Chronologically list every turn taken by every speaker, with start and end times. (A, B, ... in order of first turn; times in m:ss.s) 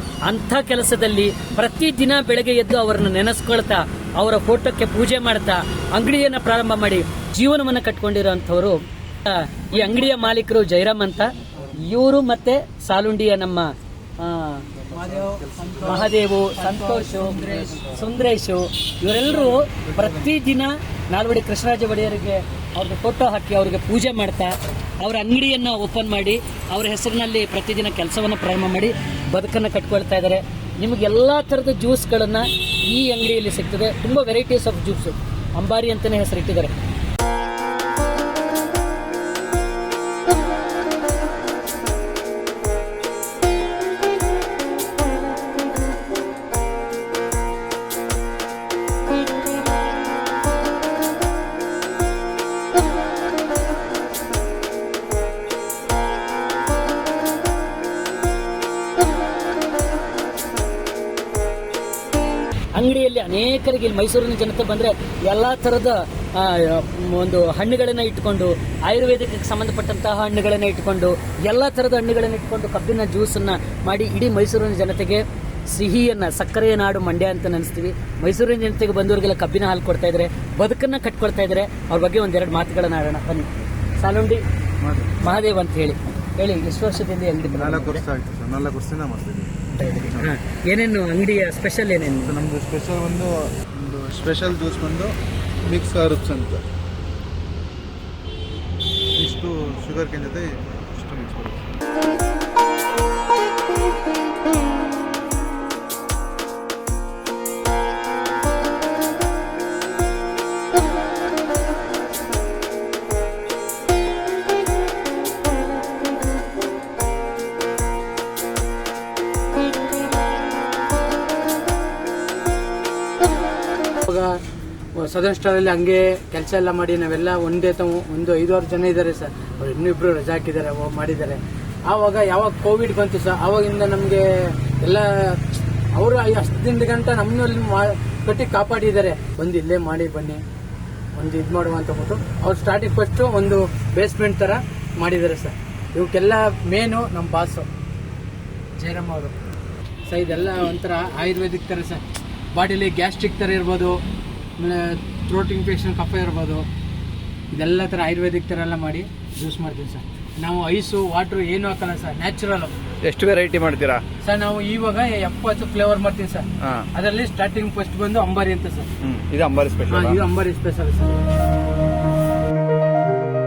0:00.2-0:14.7 A
0:14.9-0:18.0 B
0:15.8-0:36.7 A
1:02.7-1:24.4 A
1:24.8-1:25.2 C
1:25.2-1:28.0 A
1:27.5-1:30.3 C
1:29.7-1:32.4 A
1:32.2-1:36.6 C
1:39.2-1:41.6 C
2:04.0-2:04.3 B
2:05.0-2:20.4 B
2:21.2-2:27.7 B
2:28.8-2:29.4 B
2:30.1-2:32.0 B
2:32.5-2:34.0 B
2:34.6-2:36.7 B
2:37.5-2:42.7 B
2:43.0-2:44.0 D
2:44.2-2:48.9 B
2:49.0-2:50.2 D
2:49.9-2:51.2 B